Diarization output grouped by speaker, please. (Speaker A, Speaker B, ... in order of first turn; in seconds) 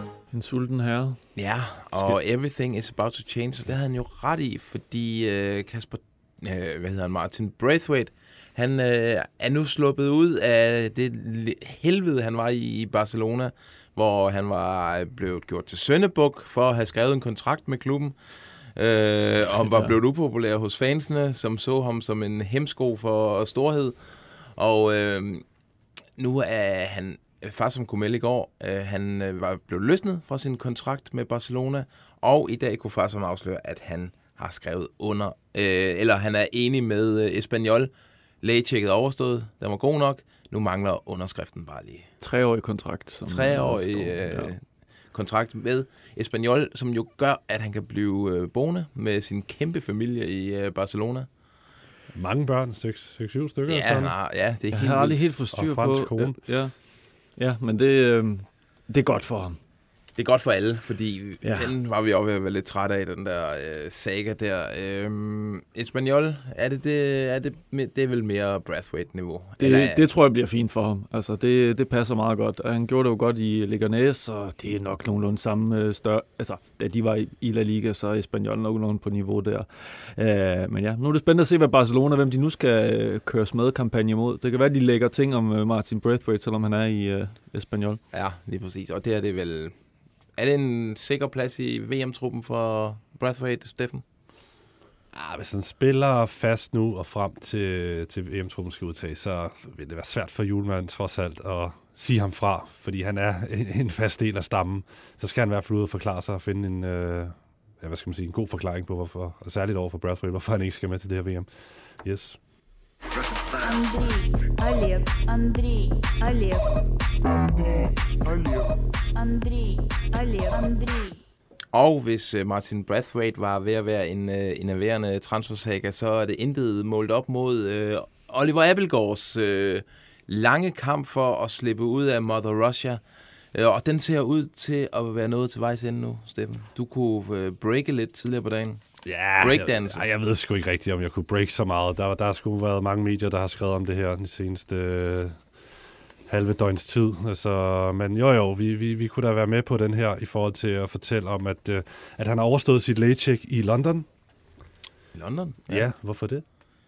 Speaker A: 0.3-1.2, 19.6-19.9, 42.2-44.5, 54.7-56.7, 57.4-59.6, 61.4-61.7, 69.6-88.0
Speaker B: 1.4-18.1, 18.8-25.4, 26.2-37.9, 38.4-42.1, 43.2-44.6, 45.1-51.3, 53.7-55.2, 60.2-70.0, 88.1-89.7, 90.4-94.0, 121.7-133.0, 133.5-138.8, 139.4-140.1, 155.2-155.9
Speaker C: 52.1-54.1, 55.5-56.4, 95.1-111.5, 112.0-112.4, 139.1-145.4, 146.3-154.1, 155.7-156.4
Speaker D: 113.6-116.7, 119.2-121.2